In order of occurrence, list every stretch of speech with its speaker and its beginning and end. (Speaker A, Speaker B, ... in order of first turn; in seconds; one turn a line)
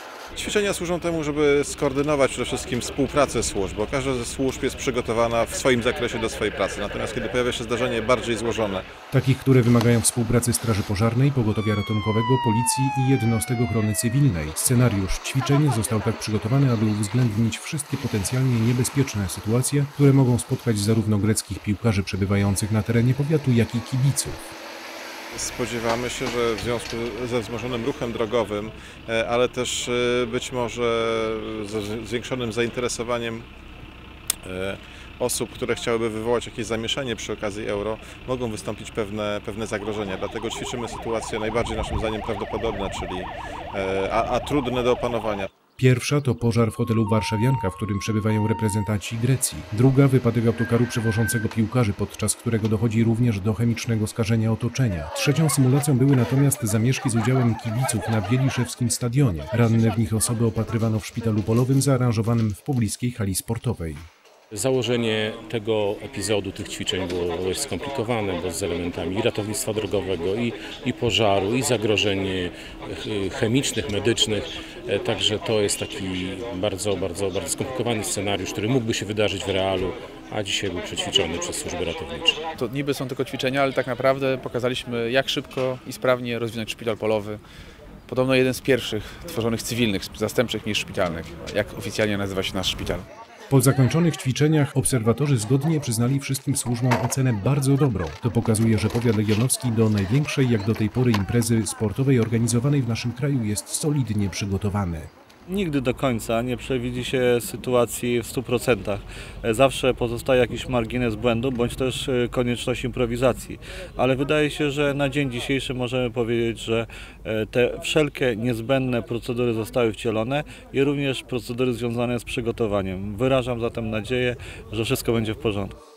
Speaker A: 0.4-8.9
Speaker B: 9.1-24.5
Speaker A: 25.3-33.5
Speaker A: 34.4-45.5
Speaker B: 45.8-64.1
Speaker C: 64.5-82.4
Speaker D: 82.6-87.4
Speaker D: 88.1-93.1
Speaker B: 93.5-105.1
Speaker E: 105.5-125.8